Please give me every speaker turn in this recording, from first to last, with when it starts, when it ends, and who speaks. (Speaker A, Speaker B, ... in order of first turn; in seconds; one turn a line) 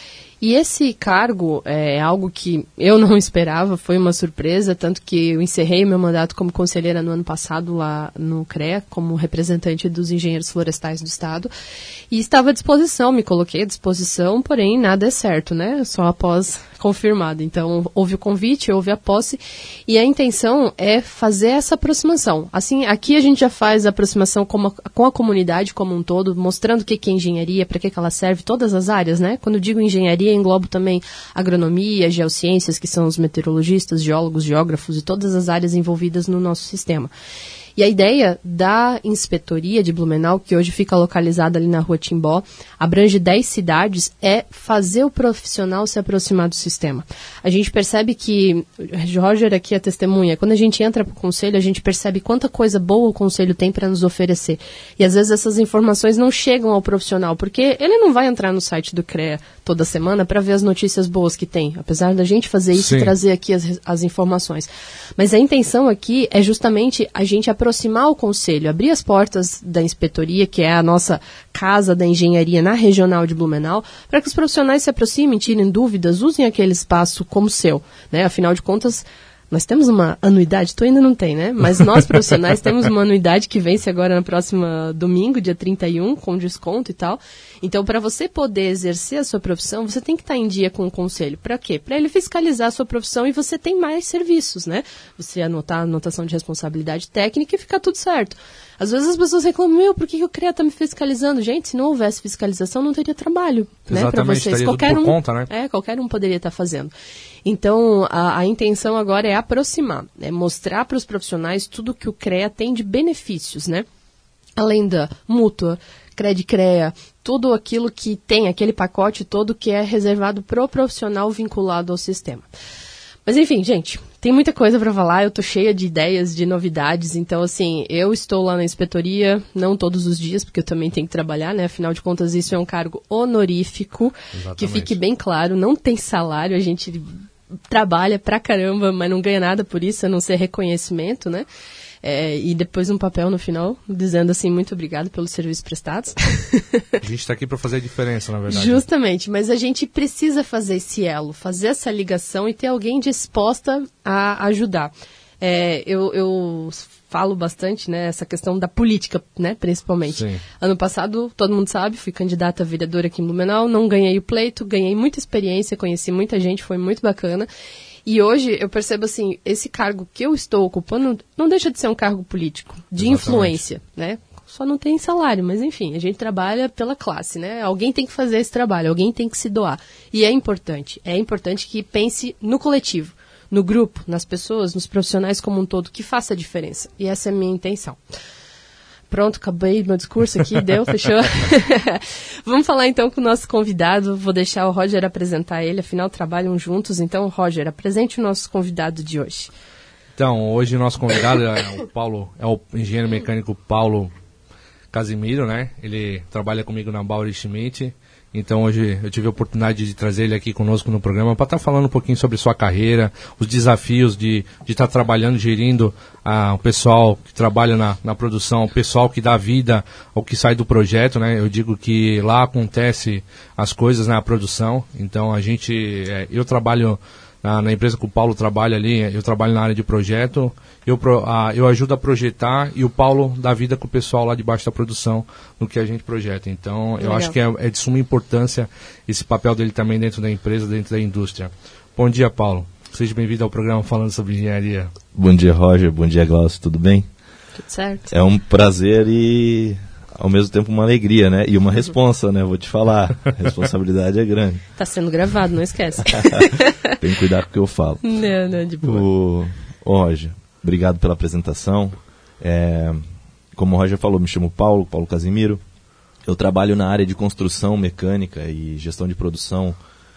Speaker A: 0.4-11.5
Speaker A: 12.1-37.1
Speaker A: 37.8-106.9
Speaker B: 62.7-63.1
Speaker B: 103.9-105.5
Speaker A: 107.4-113.8
Speaker A: 114.6-122.5
Speaker A: 123.2-137.2
Speaker B: 134.3-135.0
Speaker A: 137.7-141.4
Speaker A: 142.0-146.9
Speaker B: 147.0-148.8
Speaker A: 148.5-167.5
Speaker B: 160.1-160.4
Speaker A: 168.1-188.0
Speaker B: 173.0-173.6
Speaker A: 189.1-199.5
Speaker B: 200.2-204.1
Speaker B: 204.9-244.9
Speaker A: 237.0-237.3
Speaker C: 245.1-247.1
Speaker A: 247.6-248.1
Speaker C: 248.1-254.6
Speaker A: 254.8-256.9
Speaker C: 256.0-258.0
Speaker A: 258.0-259.1
Speaker C: 258.8-263.0
Speaker C: 263.6-265.6
Speaker C: 266.3-269.8